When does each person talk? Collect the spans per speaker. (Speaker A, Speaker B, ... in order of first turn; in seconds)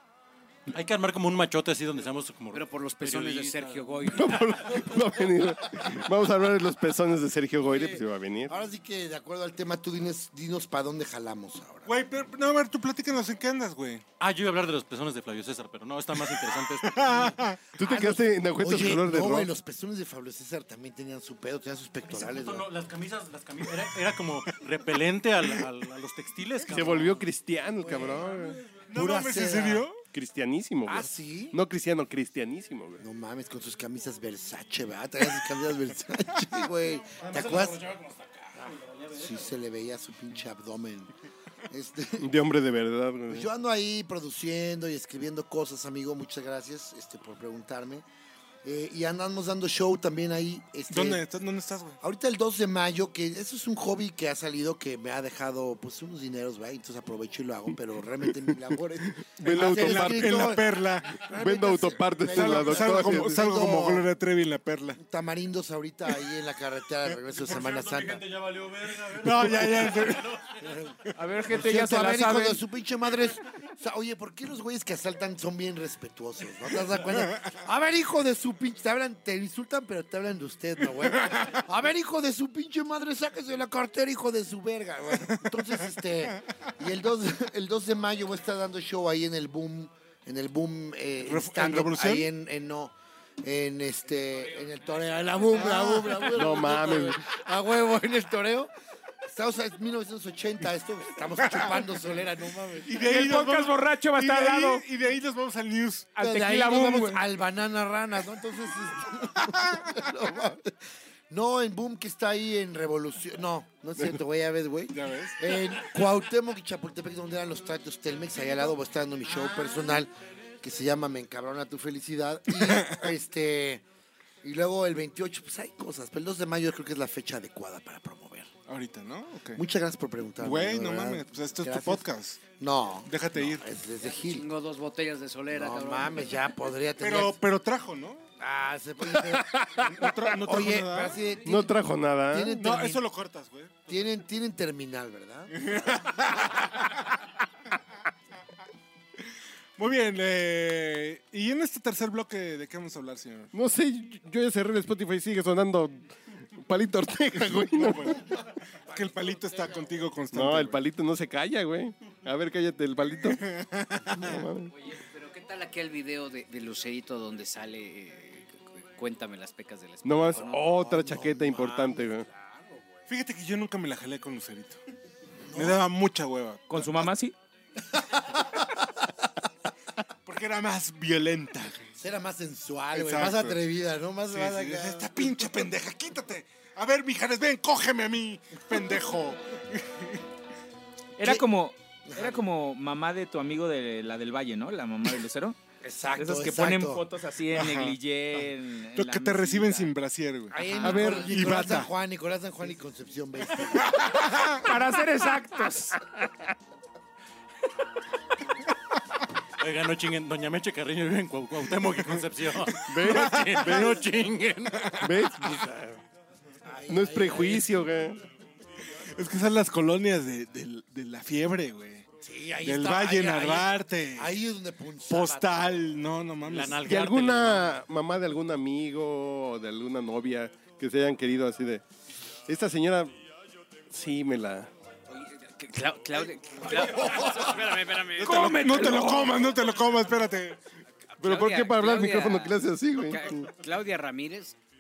Speaker A: 0.7-4.1, 14.2-17.4, 22.1-27.3, 37.5-38.3, 67.4-70.6, 209.6-215.0, 226.5-227.8
Speaker B: 2.5-4.8, 134.0-136.4, 164.7-170.7, 235.1-239.1, 241.2-244.6
Speaker C: 4.1-8.5, 17.8-19.5, 26.7-28.6, 30.1-33.0, 42.2-43.5, 59.3-60.6, 61.3-63.4, 96.3-97.3, 139.1-139.9, 141.4-142.6, 153.5-158.2, 160.3-163.4, 164.1-164.7, 170.0-172.3, 200.8-201.8, 212.8-214.0, 215.0-216.0, 216.9-218.2, 226.8-231.8, 232.5-233.2, 233.9-234.7, 241.2-243.5
Speaker D: 7.7-11.9, 17.8-22.7, 27.8-29.9, 30.9-31.6, 33.0-38.0, 38.6-41.1, 41.7-42.3, 43.3-48.0, 48.6-51.3, 52.0-64.1, 65.0-68.3, 70.6-98.7, 99.2-103.1, 106.2-110.8, 111.3-123.8, 124.4-128.5, 129.6-134.5, 135.5-137.4, 138.4-141.8, 142.3-143.1, 143.9-146.6, 170.5-173.0, 175.5-175.9, 177.9-178.7, 182.0-185.6, 192.1-192.5, 195.8-197.1, 200.5-204.2, 216.6-217.9, 222.2-225.8, 236.6-237.5
Speaker E: 11.9-14.0, 16.4-17.6, 28.9-30.0, 50.9-52.0, 59.4-61.2, 62.3-65.0, 69.1-70.4, 91.2-92.3, 95.6-96.2, 102.9-106.1, 114.9-115.4, 122.5-123.1, 128.7-129.6, 130.4-132.4, 133.1-133.7, 137.0-138.2, 139.8-141.2, 142.5-143.9, 145.5-146.9, 149.8-153.5, 157.5-160.8, 163.4-164.4, 173.1-174.8, 175.5-176.9, 180.3-181.9, 182.9-183.6, 184.3-190.2, 197.5-201.9, 204.0-204.7, 212.9-213.9, 214.8-215.2, 218.9-222.1, 222.6-224.4, 225.1-226.8, 238.2-240.6
Speaker F: 71.2-72.6, 103.0-104.8, 106.2-107.2, 176.7-177.3, 191.2-195.6, 196.2-199.9, 204.6-206.0, 238.2-239.3